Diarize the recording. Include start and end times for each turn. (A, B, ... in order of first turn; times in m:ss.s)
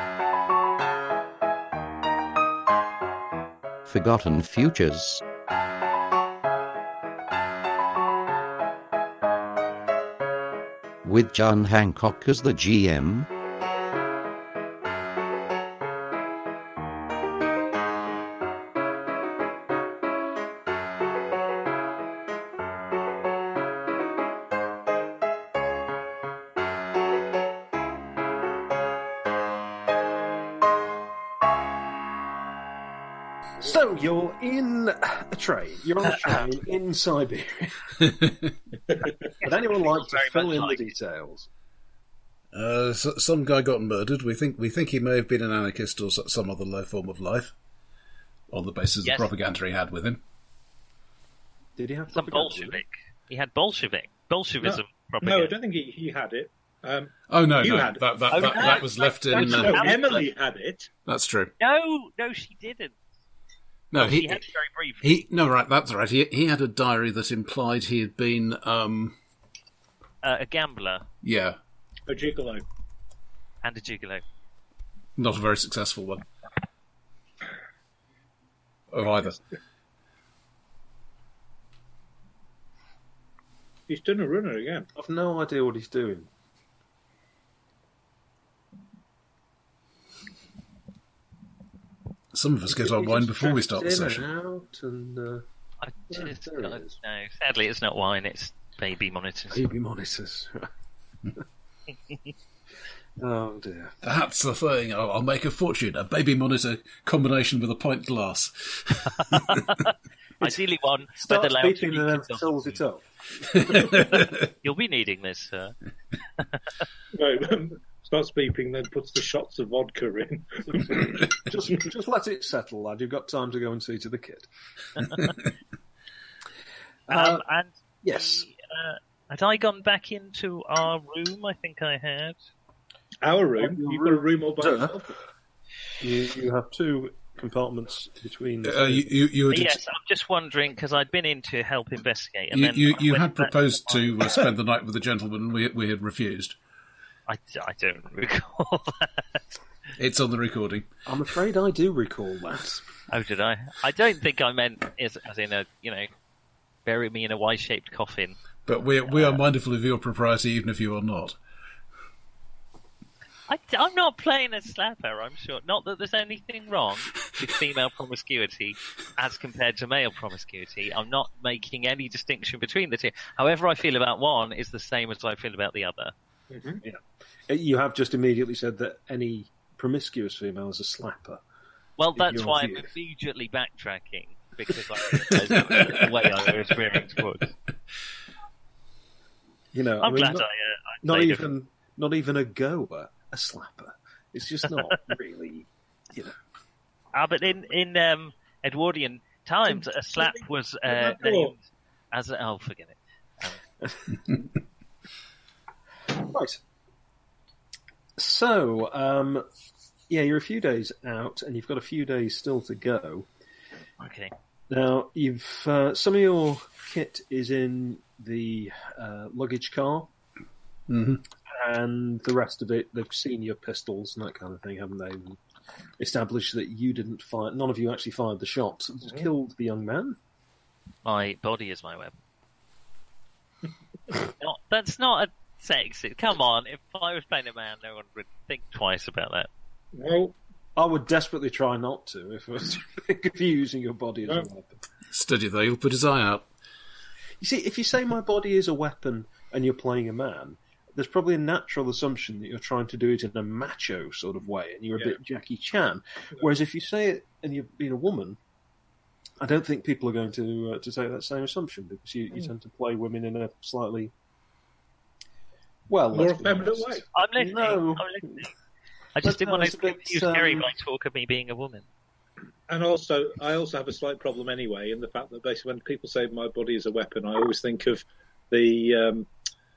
0:03.9-0:05.2 A
0:11.0-0:13.3 A
0:33.6-0:38.0 B
0:38.0-0:38.4 C
0:39.4-0:40.9 D
0:39.4-0:41.5 B
0:42.5-0:47.5 C
0:48.5-0:50.2 C
0:49.0-0:49.3 D
0:51.8-0:52.8 B
0:52.1-0:55.5 D
0:54.6-1:00.9 E
0:57.3-0:59.9 C
0:58.3-1:00.2 D
0:59.3-1:00.2 B
1:01.0-1:01.5 C
1:01.6-1:02.9 D
1:03.9-1:04.4 C
1:03.9-1:05.0 D
1:05.0-1:09.2 C
1:10.2-1:11.0 D
1:11.2-1:11.6 C
1:12.1-1:12.6 E
1:13.6-1:14.2 D
1:15.2-1:16.2 C
1:18.9-1:19.4 C
1:23.9-1:24.9 E
1:24.9-1:26.3 B
1:32.3-1:34.2 C
1:32.7-1:35.4 B
1:35.8-1:39.7 D
1:36.1-1:37.0 B
1:39.5-1:40.7 B
1:43.2-1:44.0 B
1:44.0-1:49.7 C
1:49.4-1:52.5 D
1:51.2-1:53.7 B
1:53.7-1:54.3 C
1:53.8-1:55.7 D
1:57.1-2:01.4 E
2:00.7-2:04.5 B
2:07.1-2:07.4 B
2:07.1-2:12.4 D
2:08.0-2:08.4 B
2:13.2-2:15.1 E
2:13.6-2:15.0 B
2:16.0-2:19.0 B
2:18.6-2:19.8 C
2:19.5-2:24.4 D
2:22.5-2:26.6 C
2:27.3-2:29.4 D
2:30.0-2:30.9 C
2:31.0-2:32.8 B
2:33.1-2:36.1 D
2:36.8-2:38.4 D
2:38.6-2:41.4 C
2:39.1-2:39.4 D
2:43.5-2:56.1 D
2:56.5-2:56.8 E
2:56.8-3:01.4 B
3:02.0-3:07.5 D
3:02.1-3:02.9 B
3:09.7-3:10.4 B
3:10.0-3:11.5 D
3:11.0-3:16.4 B
3:17.1-3:23.6 D
3:20.2-3:21.5 E
3:23.8-3:24.1 B
3:26.1-3:26.6 B
3:28.2-3:29.4 B
3:30.1-3:33.3 B
3:34.0-3:34.3 D
3:34.7-3:40.1 B
3:40.9-3:41.2 C
3:41.4-3:45.4 B
3:46.0-3:50.2 B
3:51.0-3:52.1 D
3:54.4-3:59.5 D
3:59.9-4:00.4 E
4:00.8-4:04.8 B
4:05.1-4:06.5 C
4:07.4-4:18.4 B
4:19.4-4:24.1 B
4:25.9-4:28.4 B
4:26.1-4:27.0 E
4:27.1-4:28.5 D
4:29.1-4:31.9 D
4:29.2-4:30.7 B
4:32.7-4:39.3 E